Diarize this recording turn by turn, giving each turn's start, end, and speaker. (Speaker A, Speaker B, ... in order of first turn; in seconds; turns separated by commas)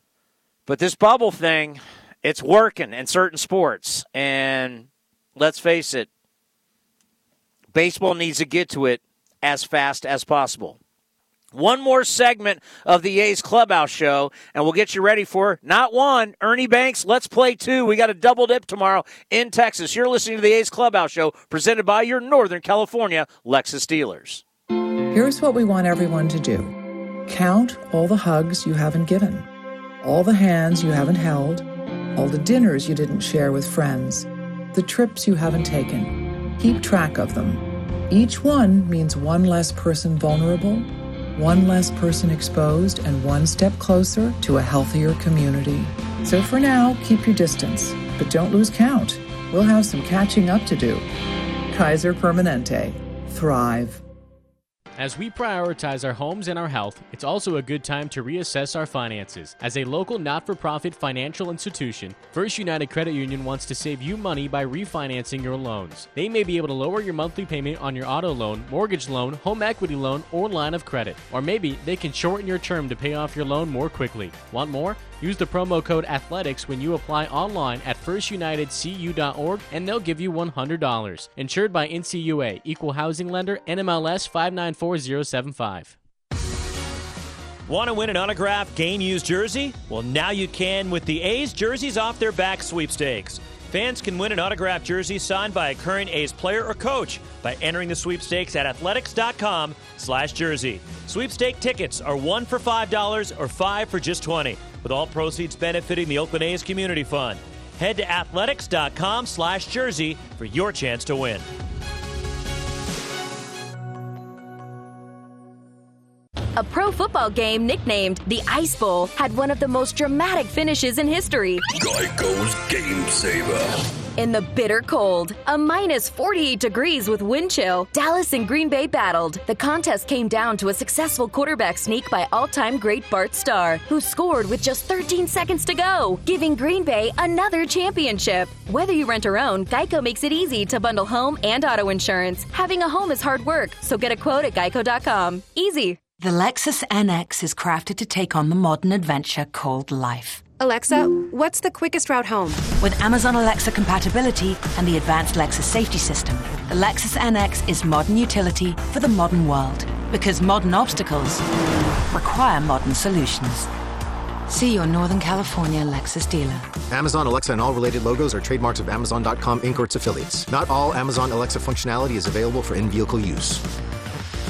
Speaker A: 0.7-6.1, Speaker A: 7.7-10.8, Speaker A: 11.5-24.4, Speaker B: 25.1-26.7, Speaker B: 27.3-29.5, Speaker B: 30.0-51.1, Speaker B: 51.7-54.0, Speaker C: 55.0-86.0, Speaker D: 87.7-111.5, Speaker E: 116.6-121.6, Speaker F: 121.8-123.7, Speaker E: 124.2-146.0, Speaker G: 146.2-150.4, Speaker H: 150.6-152.7, Speaker G: 152.8-161.4, Speaker G: 162.1-163.7, Speaker G: 164.5-166.7, Speaker I: 166.9-173.6